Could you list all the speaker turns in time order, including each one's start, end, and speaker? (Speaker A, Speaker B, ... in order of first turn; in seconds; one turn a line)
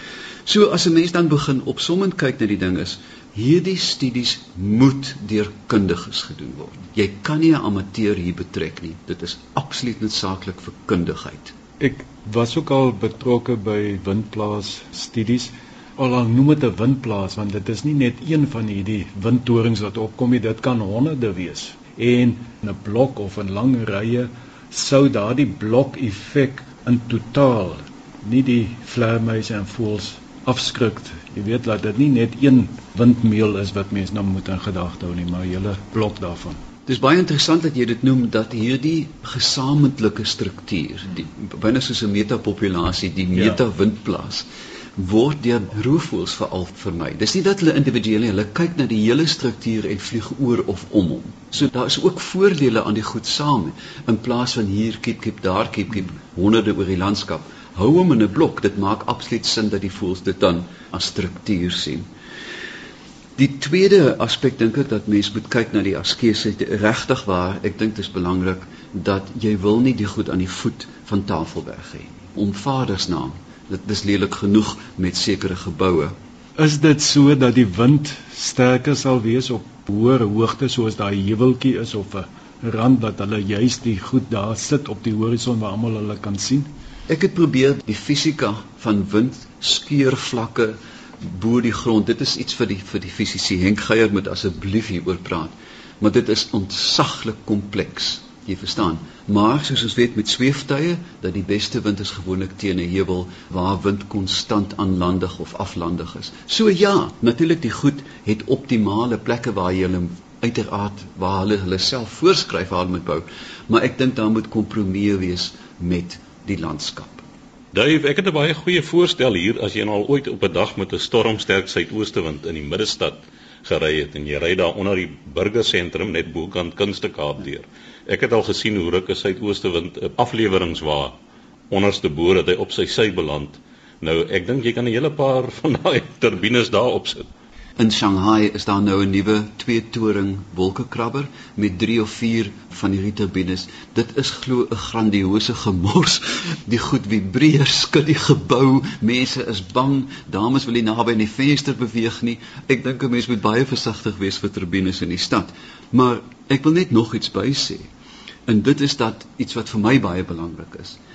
Speaker A: 0.5-11.5
Speaker B: 11.8-36.6
Speaker A: 36.9-62.1
Speaker A: 63.4-76.2
Speaker B: 76.6-86.7
Speaker A: 87.1-117.2
Speaker C: 117.7-131.2
Speaker C: 131.7-137.3
Speaker A: 137.8-157.9
Speaker A: 158.5-161.0